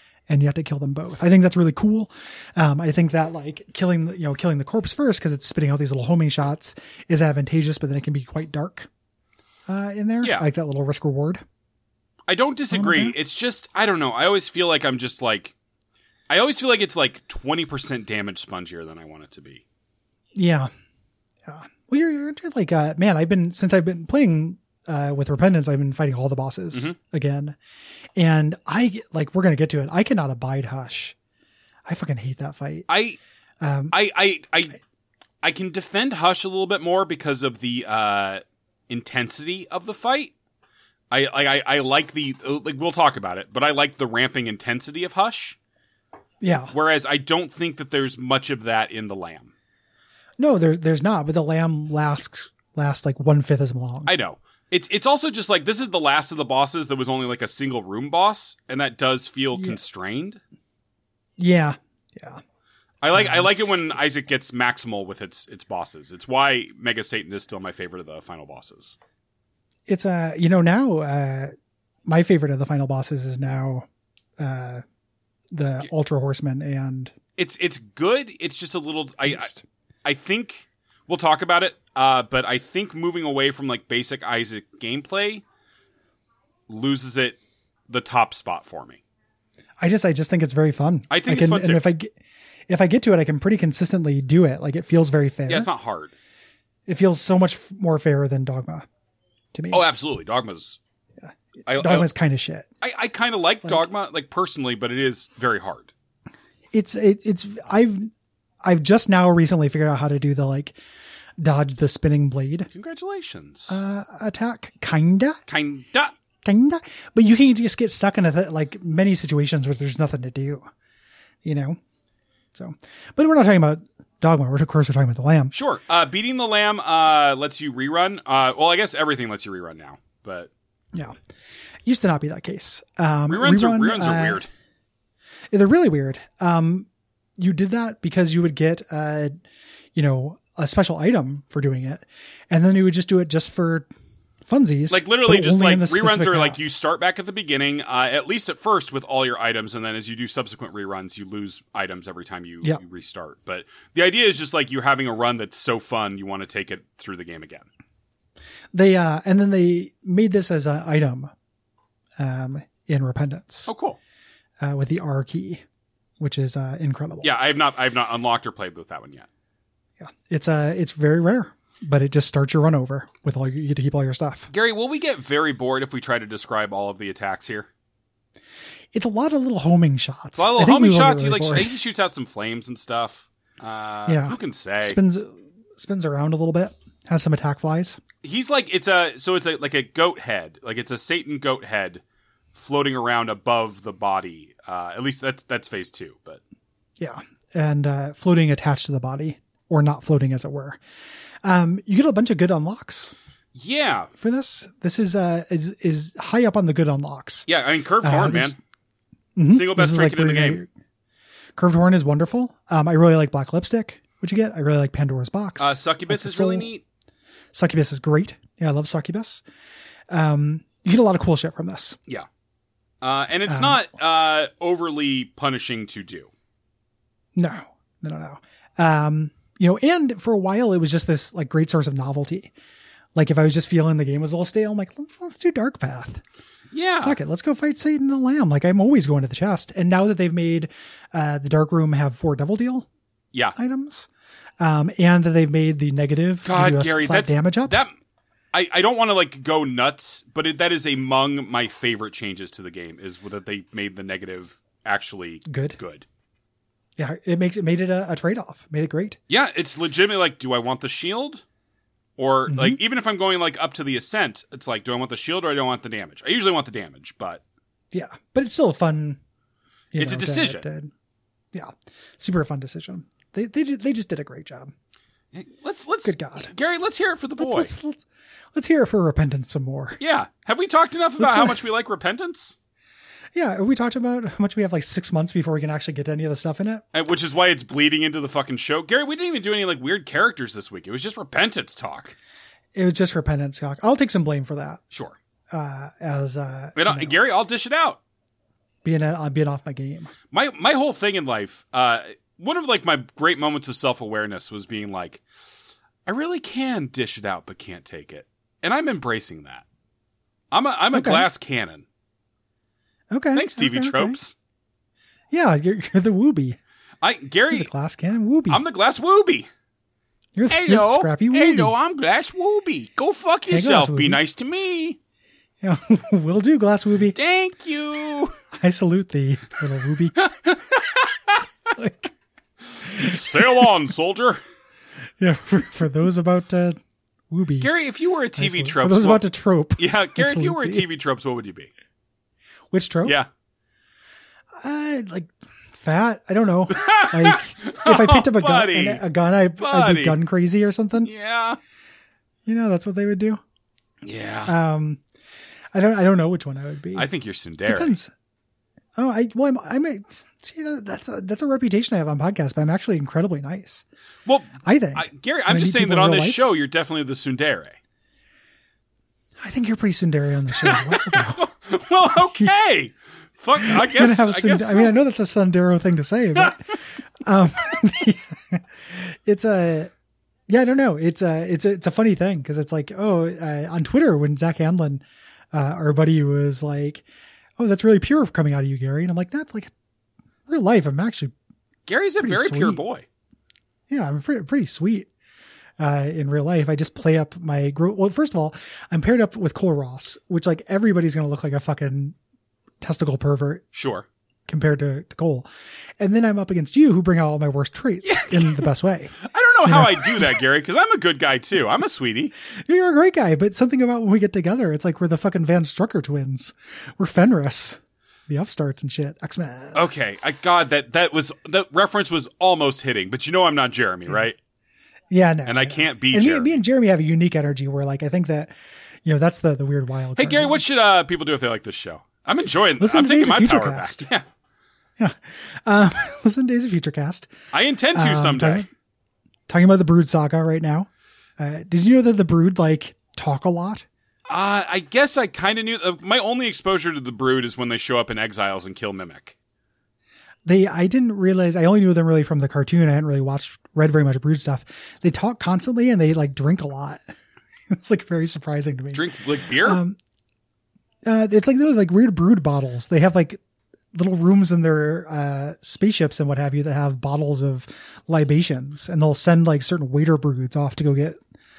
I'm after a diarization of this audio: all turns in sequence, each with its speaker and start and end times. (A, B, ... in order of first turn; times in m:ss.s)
0:00.3-0:08.9 A
0:09.7-0:11.4 A
0:12.3-0:15.5 B
0:12.7-0:13.2 A
0:16.3-0:19.6 B
0:20.4-0:20.7 A
0:21.5-0:27.6 A
0:28.2-0:31.2 A
0:31.9-0:32.9 A
0:32.9-0:33.2 B
0:33.6-0:34.0 A
0:33.9-0:34.8 B
0:35.4-0:40.3 B
0:41.1-0:45.6 B
0:46.4-0:46.7 A
0:46.7-0:49.5 B
0:50.4-0:54.1 A
0:54.1-1:00.4 B
0:59.5-0:59.8 A
1:01.4-1:02.4 A
1:03.0-1:09.0 B
1:03.1-1:03.5 A
1:09.9-1:11.5 A
1:12.1-1:13.9 A
1:14.4-1:14.8 A
1:15.5-1:17.1 A
1:17.4-1:19.5 B
1:19.3-1:19.6 A
1:20.0-1:25.4 B
1:26.7-1:29.0 B
1:29.8-1:32.1 A
1:31.1-1:31.8 B
1:32.7-1:35.7 A
1:35.5-1:36.1 B
1:36.9-1:38.8 A
1:39.5-1:39.8 A
1:39.7-1:40.8 B
1:41.2-1:42.7 A
1:41.7-1:42.1 B
1:42.8-1:45.9 B
1:46.7-1:48.1 A
1:48.6-1:50.8 A
1:51.4-1:52.7 A
1:52.7-1:53.8 B
1:53.7-1:55.4 A
1:55.5-1:56.1 B
1:56.4-2:00.6 A
2:01.4-2:01.8 A
2:02.5-2:05.5 A
2:05.5-2:10.5 B
2:11.9-2:14.5 A
2:13.3-2:14.5 B
2:15.5-2:19.3 A
2:20.0-2:23.9 A
2:24.5-2:26.6 A
2:24.9-2:37.7 B
2:38.7-2:41.3 A
2:42.2-2:43.7 A
2:43.7-2:44.0 B
2:44.6-2:45.6 A
2:46.2-2:47.4 A
2:47.2-2:49.3 B
2:50.0-2:54.5 A
2:54.5-2:57.7 B
2:58.9-3:01.7 A
3:00.4-3:05.0 B
3:04.1-3:08.0 A
3:08.2-3:12.0 B
3:12.6-3:16.4 B
3:17.0-3:20.8 A
3:21.4-3:23.2 A
3:23.6-3:24.1 B
3:24.2-3:27.5 A
3:27.5-3:28.6 B
3:28.0-3:28.6 A
3:29.4-3:30.7 A
3:29.5-3:30.6 B
3:31.6-3:36.7 A
3:35.6-3:36.8 B
3:37.5-3:39.4 A
3:40.1-3:42.0 A
3:43.0-3:46.3 B
3:43.5-3:43.9 A
3:47.4-3:52.5 A
3:53.2-3:56.2 A
3:56.7-3:57.2 B
3:57.0-4:02.9 A
4:03.6-4:04.1 A
4:04.6-4:07.8 A
4:06.4-4:08.0 B
4:08.5-4:16.0 B
4:15.5-4:15.8 A
4:17.0-4:19.2 A
4:19.3-4:21.4 B
4:22.2-4:27.4 B
4:22.5-4:22.8 A
4:27.9-4:29.2 A
4:29.9-4:30.9 A
4:30.0-4:30.6 B
4:31.5-4:34.7 A
4:35.3-4:37.7 B
4:36.0-4:36.5 A
4:37.4-4:40.0 A
4:40.0-4:42.6 B
4:41.2-4:41.6 A
4:43.4-4:46.8 A
4:46.9-4:52.2 B
4:52.8-4:54.8 A
4:54.9-4:55.2 B
4:55.5-4:57.2 A
4:56.8-4:58.0 B
4:58.8-5:00.1 A
5:00.3-5:05.2 B
5:06.1-5:09.6 B
5:10.5-5:11.8 B
5:10.9-5:11.3 A
5:13.1-5:14.2 A
5:13.3-5:14.4 B
5:15.3-5:16.6 A
5:17.0-5:17.7 B
5:17.5-5:18.6 A
5:18.5-5:19.5 B
5:20.4-5:21.7 A
5:20.5-5:25.0 B
5:23.5-5:24.2 A
5:25.6-5:27.2 A
5:27.1-5:28.4 B
5:28.6-5:30.2 A
5:30.2-5:31.4 B
5:31.8-5:32.1 A
5:32.9-5:34.4 B
5:35.2-5:36.8 A
5:37.3-5:37.7 A
5:37.6-5:41.7 B
5:38.4-5:40.8 A
5:42.7-5:43.2 A
5:44.6-5:51.1 A
5:46.7-5:49.0 B
5:49.6-5:50.2 B
5:51.0-5:51.6 B
5:52.5-5:53.4 A
5:54.0-5:54.6 B
5:54.5-5:55.0 A
5:55.7-5:57.1 A
5:57.0-5:58.0 B
5:57.6-5:58.1 A
5:59.0-6:03.8 A
6:04.3-6:07.8 B
6:04.6-6:06.5 A
6:09.4-6:11.5 A
6:10.5-6:15.0 B
6:12.2-6:12.6 A
6:13.6-6:19.9 A
6:20.5-6:25.0 A
6:25.5-6:27.0 A
6:27.6-6:29.7 A
6:30.5-6:31.3 A
6:31.9-6:33.1 B
6:32.2-6:32.8 A
6:33.9-6:35.1 A
6:35.8-6:42.2 A
6:42.8-6:43.6 A
6:43.7-6:44.1 B
6:44.5-6:45.5 A
6:46.0-6:50.4 A
6:48.0-6:52.3 B
6:52.7-6:59.9 A
6:59.7-7:04.4 B
7:05.1-7:08.5 A
7:05.5-7:06.6 B
7:09.0-7:10.6 A
7:10.2-7:14.2 B
7:12.8-7:14.1 A
7:15.0-7:17.3 A
7:17.5-7:18.7 B
7:17.9-7:18.7 A
7:19.5-7:23.9 A
7:24.3-7:29.4 B
7:30.5-7:37.0 A
7:37.7-7:40.0 A
7:38.9-7:39.8 B
7:41.1-7:43.4 A
7:43.9-7:51.2 A